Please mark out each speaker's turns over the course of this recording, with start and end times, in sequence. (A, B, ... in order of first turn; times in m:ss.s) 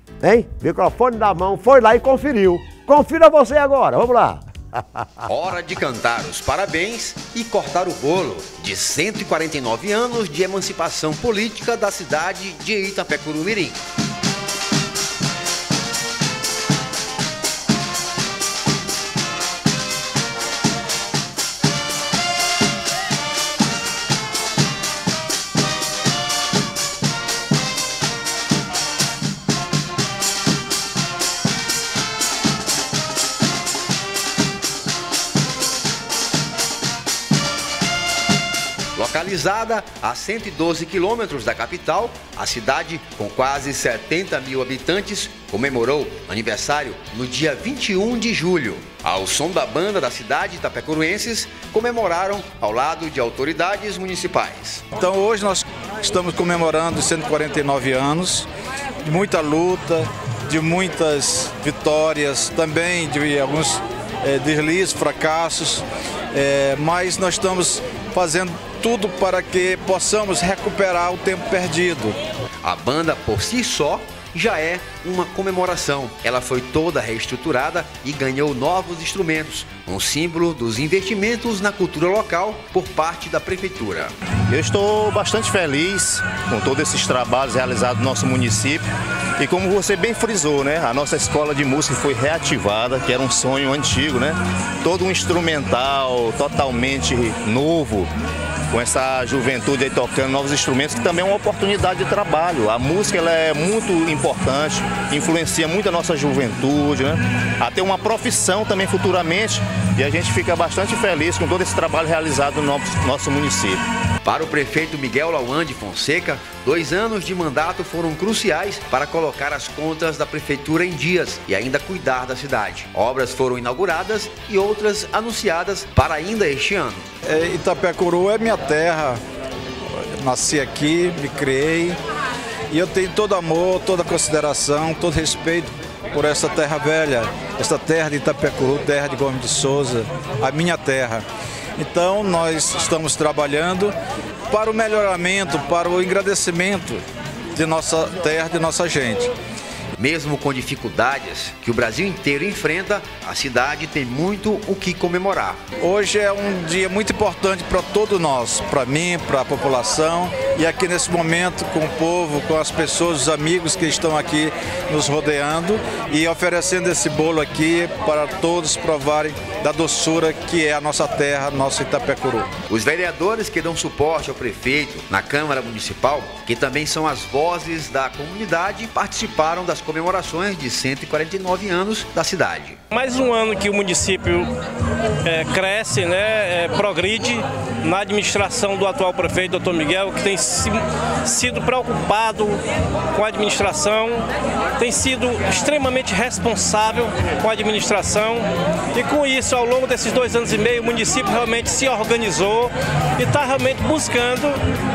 0:00.2-0:05.2 A
0:05.3-0:13.8 B
0:39.0-0:54.8 B
0:55.0-0:58.5 C
0:59.0-1:12.2 C
1:12.6-1:24.1 B
1:24.5-1:28.8 D
1:29.4-1:38.1 D
1:38.7-1:53.8 D
1:54.2-2:07.0 B
2:07.3-2:09.2 C
2:09.9-2:12.0 C
2:12.8-2:21.2 C
2:21.8-2:23.9 C
2:24.5-2:27.0 C
2:27.5-2:29.3 C
2:30.0-2:35.6 B
2:35.9-2:52.5 C
2:52.7-3:02.8 B
3:02.9-3:04.5 E
3:05.2-3:12.6 E
3:13.1-3:24.6 E